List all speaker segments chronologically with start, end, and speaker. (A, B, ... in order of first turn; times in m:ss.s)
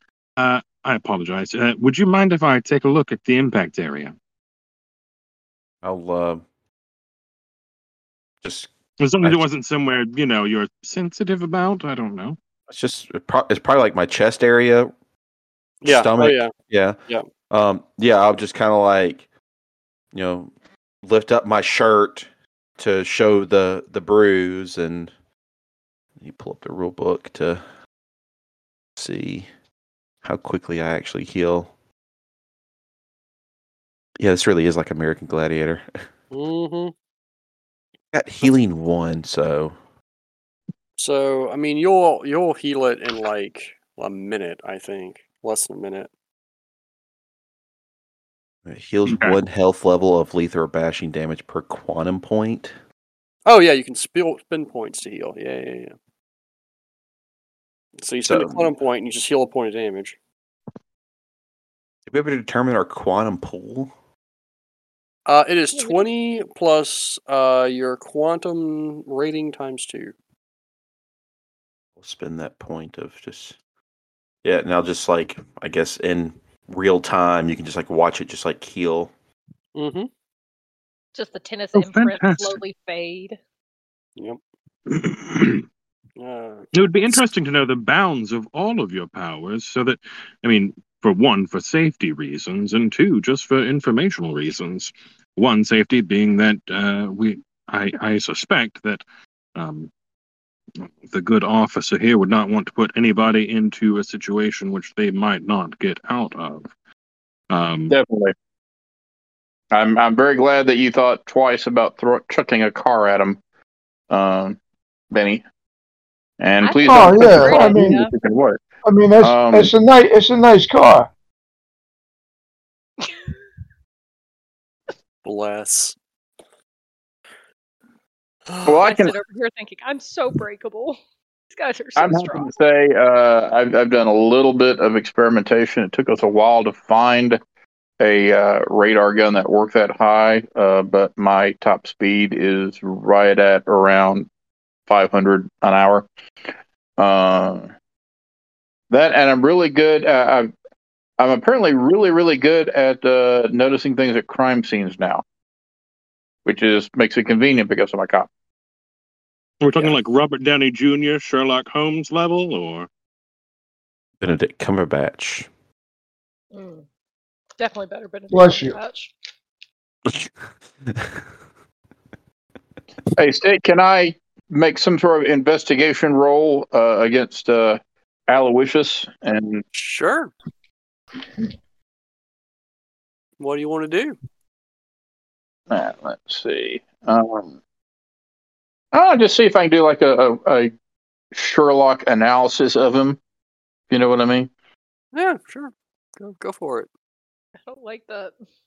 0:00.4-0:04.2 A
0:05.8-0:06.4 B
0:08.4-0:08.7 B
0:09.0-0:12.4 A
0:12.7-0:14.9 B
0:15.8-0:16.5 C
0:15.9-0:17.0 B
0:17.5-0:19.2 B
0:20.1-0:20.5 B
0:21.0-0:25.1 B
0:26.2-0:27.6 B
0:29.0-0:29.5 B
0:30.2-0:31.7 B
0:34.2-0:35.9 B
0:36.3-0:36.9 C
0:38.1-0:39.8 B
0:41.0-0:46.1 C
0:48.7-0:52.8 B
0:49.1-0:49.4 A
0:53.5-0:56.0 C
0:58.0-1:00.2 C
0:58.2-0:58.8 B
1:02.1-1:03.9 B
1:05.3-1:10.1 C
1:05.8-1:06.0 D
1:12.0-1:13.6 B
1:14.4-1:19.1 B
1:19.8-1:20.1 C
1:21.2-1:23.4 D
1:21.7-1:22.6 A
1:24.9-1:25.6 A
1:26.2-1:26.7 C
1:26.7-1:39.0 A
1:39.6-1:39.9 A
1:40.9-1:46.7 A
1:47.5-1:48.0 A
1:47.9-1:48.3 E
1:49.7-1:53.4 E
1:54.1-1:54.6 E
1:55.1-1:55.4 E
1:56.4-1:58.6 E
1:56.6-1:58.1 D
1:56.8-1:58.1 F
1:58.8-2:01.1 F
1:59.2-1:59.7 E
2:05.2-2:06.0 C
2:08.5-2:08.8 C
2:08.7-2:09.2 E
2:08.8-2:11.0 D
2:11.5-2:12.6 D
2:12.0-2:17.4 E
2:18.0-2:24.3 E
2:24.9-2:26.1 E
2:27.0-2:27.7 E
2:28.9-2:30.5 E
2:31.2-2:35.2 E
2:36.4-2:38.3 E
2:39.6-2:42.9 A
2:44.2-2:45.5 B
2:46.5-2:46.8 D
2:47.6-2:49.1 D
2:48.3-2:48.8 F
2:50.9-2:51.2 B
2:53.2-2:59.6 E
2:59.7-3:00.3 C
3:03.4-3:04.2 C
3:05.7-3:07.6 E
3:08.9-3:10.7 E
3:11.3-3:13.2 E
3:13.9-3:14.5 E
3:15.1-3:16.9 C
3:17.7-3:18.3 D